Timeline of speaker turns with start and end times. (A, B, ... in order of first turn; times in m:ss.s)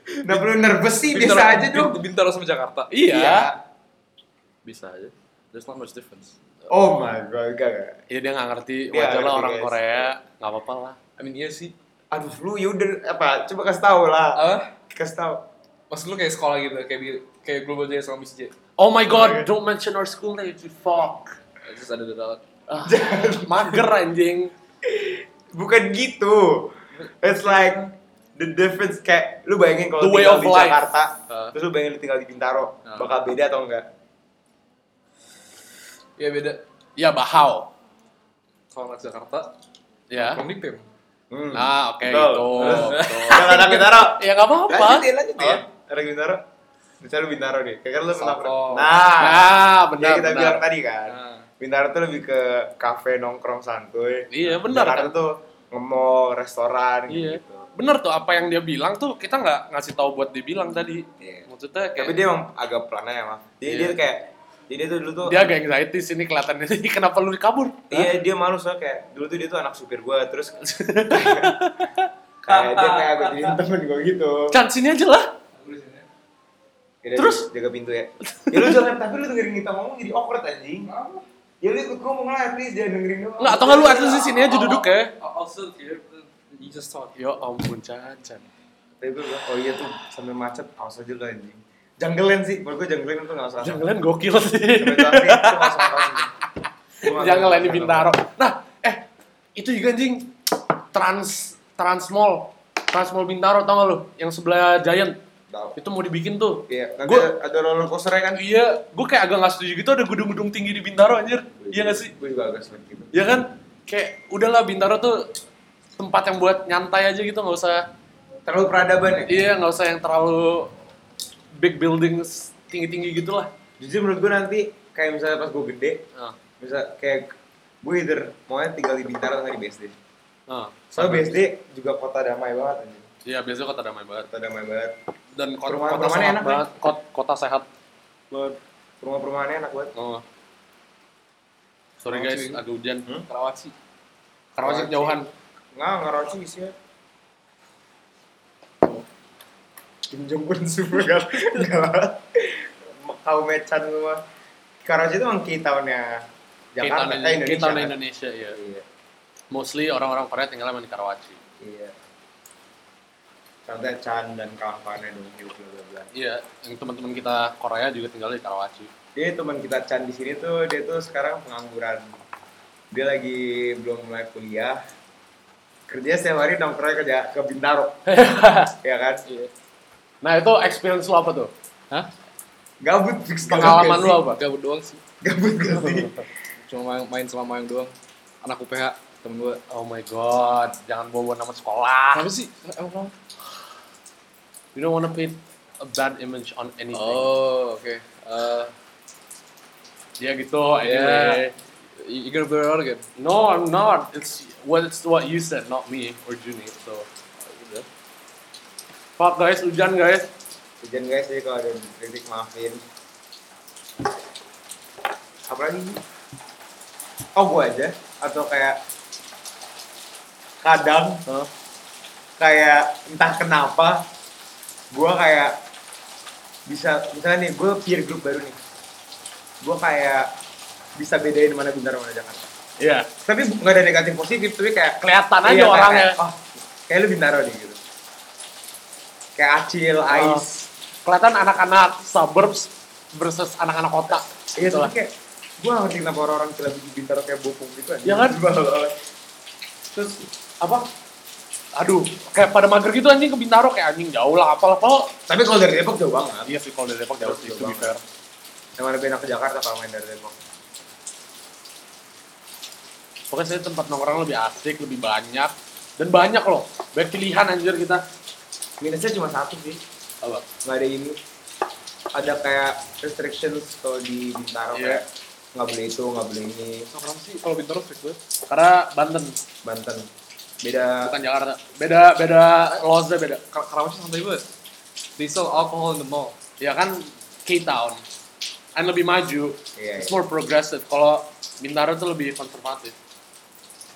0:00.2-0:02.0 A
0:01.1-0:03.1 B
0:02.9-0:03.5 C
0:03.1-0:03.6 A
0:04.6-0:06.4 B
0:06.7-0:08.0 A
0:08.1-0:11.0 C
0:08.9-0:10.1 A
0:11.2-0:11.7 B
0:12.1-0:15.5 A
0:14.4-0:14.7 B
0:15.9-0:18.5 B
0:18.8-0:21.4 C
0:19.1-0:19.5 A
0:21.6-0:22.4 B
0:22.7-0:24.5 C
0:22.8-0:23.8 A
0:24.8-0:33.9 A
0:27.0-0:27.9 B
0:30.0-0:30.9 C
0:36.2-0:36.6 B
0:37.0-0:37.7 C
0:38.7-0:39.5 B
0:40.1-0:40.4 C
0:40.2-0:40.8 B
0:41.3-0:46.4 A
0:41.5-0:45.1 C
0:42.6-0:43.9 B
0:47.0-0:57.7 A
0:48.2-0:49.0 B
0:49.2-0:50.6 C
0:51.1-0:51.5 B
0:54.3-0:55.2 C
0:57.1-1:02.2 C
1:01.2-1:05.5 A
1:03.7-1:04.0 C
1:05.2-1:08.1 C
1:07.9-1:11.6 A
1:10.6-1:12.1 C
1:12.4-1:14.6 A
1:12.5-1:13.6 B
1:14.5-1:15.3 C
1:15.6-1:16.1 B
1:17.0-1:20.9 A
1:17.2-1:17.5 C
1:18.3-1:18.8 C
1:20.9-1:21.2 B
1:21.6-1:24.4 A
1:23.4-1:25.1 C
1:23.8-1:27.1 B
1:27.2-1:28.4 C
1:29.0-1:33.9 A
1:33.6-1:39.0 C
1:34.8-1:36.3 A
1:37.0-1:38.1 A
1:39.6-1:40.3 C
1:40.9-1:45.2 C
1:45.5-1:45.8 A
1:45.8-1:47.3 C
1:46.7-1:48.4 A
1:48.4-1:52.1 C
1:51.6-1:53.1 A
1:53.1-1:55.3 C
1:56.0-1:57.8 C
1:58.5-1:59.3 A
1:59.3-2:00.7 C
2:01.6-2:03.5 C
2:03.8-2:06.0 A
2:06.6-2:10.0 A
2:10.5-2:11.5 C
2:10.9-2:13.1 A
2:13.2-2:14.3 C
2:14.2-2:14.9 A
2:15.4-2:17.7 C
2:15.6-2:16.6 A
2:18.3-2:19.9 A
2:20.0-2:20.2 C
2:22.0-2:23.1 C
2:22.1-2:22.6 B
2:23.3-2:23.7 B
2:24.6-2:25.3 C
2:24.6-2:25.2 A
2:25.7-2:26.8 A
2:30.1-2:34.2 A
2:34.8-2:38.0 A
2:36.8-2:38.6 C
2:38.5-2:38.9 A
2:39.5-2:41.4 C
2:41.6-2:42.0 A
2:43.7-2:46.1 A
2:46.1-2:48.9 C
2:49.2-2:52.1 A
2:52.9-2:54.8 A
2:55.9-2:58.0 A
2:58.1-2:58.8 C
2:58.8-2:59.2 A
3:00.2-3:01.5 C
3:02.8-3:04.2 A
3:03.5-3:04.4 C
3:03.5-3:05.0 B
3:05.2-3:06.2 A
3:05.8-3:06.1 C
3:06.6-3:09.6 B
3:09.7-3:12.3 C
3:12.1-3:13.1 B
3:14.8-3:17.3 C
3:16.9-3:18.7 B
3:20.2-3:21.5 C
3:20.8-3:23.1 B
3:23.2-3:27.1 C
3:27.4-3:27.9 B
3:29.2-3:30.3 C
3:30.8-3:32.8 A
3:35.5-3:36.0 A
3:37.3-3:38.8 A
3:40.6-3:41.2 A
3:42.4-3:44.1 A
3:44.9-3:45.6 A
3:46.7-3:48.6 A
3:49.6-3:50.3 A
3:51.0-3:52.5 A
3:52.8-3:53.1 C
3:53.3-3:57.8 A
3:55.0-3:56.2 C
3:59.4-4:00.7 A
4:00.1-4:00.5 C
4:01.1-4:04.9 C
4:04.6-4:09.0 A
4:08.0-4:08.4 C
4:09.9-4:10.3 A
4:10.6-4:10.9 C
4:11.8-4:15.1 C
4:15.3-4:16.5 A
4:16.5-4:18.0 C
4:17.2-4:18.0 A
4:18.8-4:20.4 A
4:23.3-4:28.0 C
4:28.8-4:29.8 A
4:30.6-4:31.2 A
4:32.1-4:36.9 A
4:34.7-4:35.0 C
4:36.9-4:38.2 B
4:38.5-4:39.4 C
4:39.6-4:40.1 A
4:40.6-4:41.1 A
4:41.0-4:43.4 C
4:43.5-4:44.4 B
4:45.2-4:46.4 B
4:46.6-4:48.0 C
4:48.8-4:53.0 C
4:49.8-4:50.2 A